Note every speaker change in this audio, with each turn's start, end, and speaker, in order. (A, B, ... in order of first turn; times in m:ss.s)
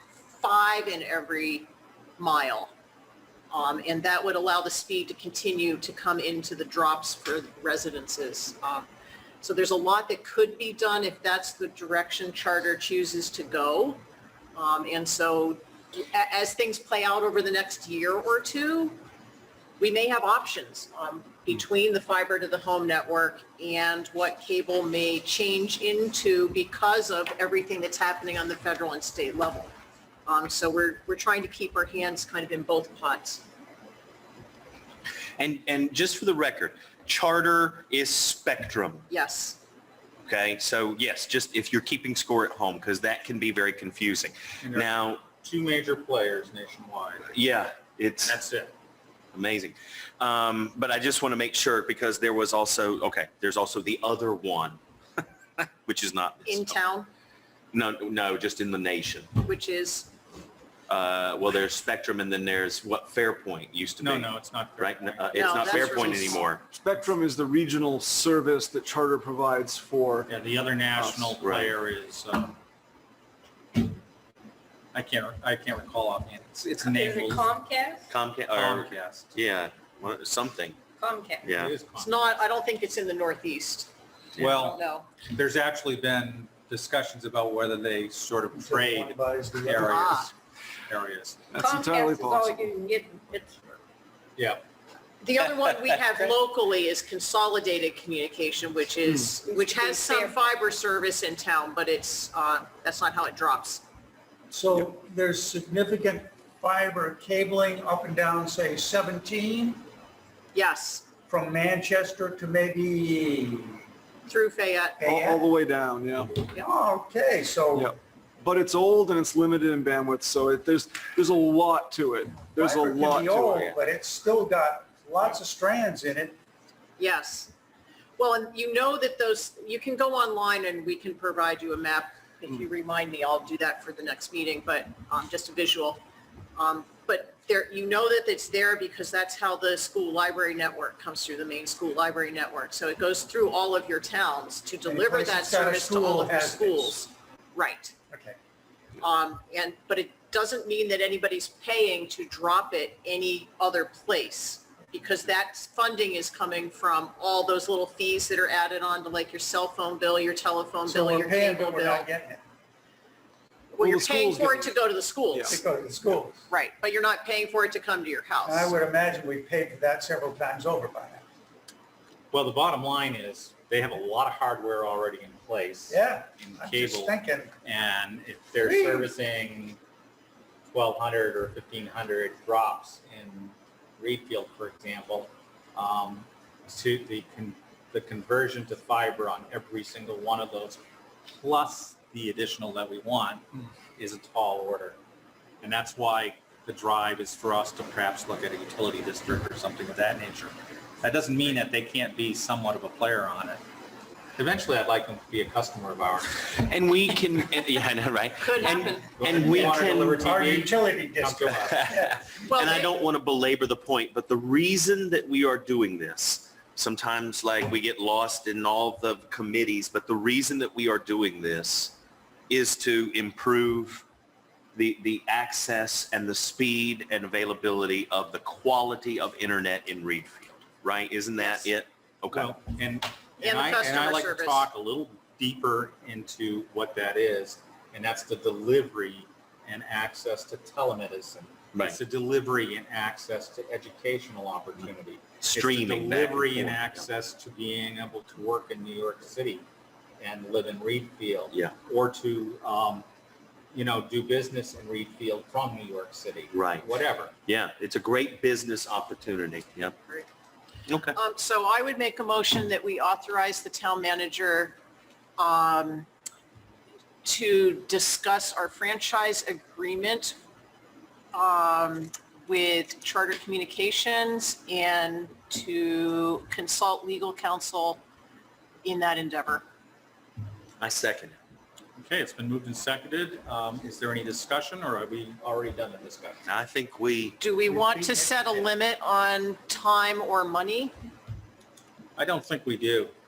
0:00.3-0:02.7 A
0:03.5-0:08.8 A
0:09.4-0:14.0 A
0:14.6-0:19.0 A
0:19.8-0:29.7 A
0:30.2-0:33.4 A
0:35.4-0:39.1 B
0:39.1-0:39.6 A
0:40.2-0:45.2 B
0:44.6-0:47.3 C
0:47.3-0:48.4 B
0:48.2-0:48.7 C
0:49.3-0:54.8 B
0:55.8-0:56.8 B
0:56.4-0:57.1 A
0:57.7-0:59.3 B
0:59.4-1:00.1 A
1:00.9-1:06.6 B
1:04.0-1:06.4 C
1:05.3-1:06.5 A
1:06.7-1:10.3 D
1:10.3-1:12.6 C
1:11.0-1:11.3 D
1:11.4-1:11.7 B
1:14.9-1:17.5 C
1:16.8-1:18.1 E
1:18.1-1:20.8 B
1:18.5-1:19.3 C
1:21.0-1:21.5 E
1:21.4-1:21.7 B
1:21.6-1:22.1 C
1:22.0-1:23.9 A
1:24.4-1:30.3 C
1:24.4-1:25.1 A
1:28.5-1:30.1 F
1:29.8-1:30.3 A
1:30.9-1:31.5 C
1:31.5-1:32.4 D
1:31.6-1:33.6 E
1:34.4-1:34.6 C
1:35.2-1:43.8 A
1:39.4-1:40.4 E
1:44.5-1:49.8 F
1:50.5-1:51.0 A
1:51.3-1:53.8 F
1:54.3-1:55.0 A
1:55.0-1:55.5 F
1:55.0-1:56.4 D
1:56.5-1:58.0 F
1:57.8-2:03.7 D
2:02.6-2:06.4 F
2:07.0-2:07.5 A
2:08.2-2:16.0 A
2:16.6-2:27.9 A
2:24.8-2:27.0 F
2:28.1-2:28.4 F
2:29.0-2:42.1 A
2:40.9-2:42.4 F
2:43.7-2:45.6 A
2:43.8-2:44.7 D
2:45.5-2:46.4 F
2:46.5-2:48.7 A
2:48.4-2:51.2 F
2:52.3-2:59.8 C
2:55.9-2:57.5 F
2:58.6-2:59.1 F
3:00.7-3:10.8 C
3:11.4-3:15.0 C
3:15.6-3:23.6 C
3:24.4-3:26.3 C
3:26.4-3:30.3 B
3:28.4-3:29.7 A
3:29.1-3:31.7 C
3:29.4-3:32.3 F
3:31.6-3:41.9 B
3:32.5-3:32.9 A
3:42.5-3:44.0 B
3:44.8-3:52.5 B
3:51.4-3:51.7 A
3:52.3-4:09.6 C
3:53.4-3:54.7 A
4:05.4-4:07.0 B
4:10.2-4:13.0 C
4:13.7-4:17.3 C
4:16.5-4:16.9 B
4:17.4-4:20.0 B
4:20.9-4:21.2 B
4:21.1-4:24.8 A
4:25.4-4:26.1 A
4:27.2-4:30.4 A
4:31.3-4:38.0 A
4:38.8-4:39.6 A
4:40.8-4:41.4 B
4:42.0-4:46.4 C
4:46.4-4:47.4 B
4:47.4-4:50.9 A
4:47.7-4:48.6 F
4:52.2-4:53.1 C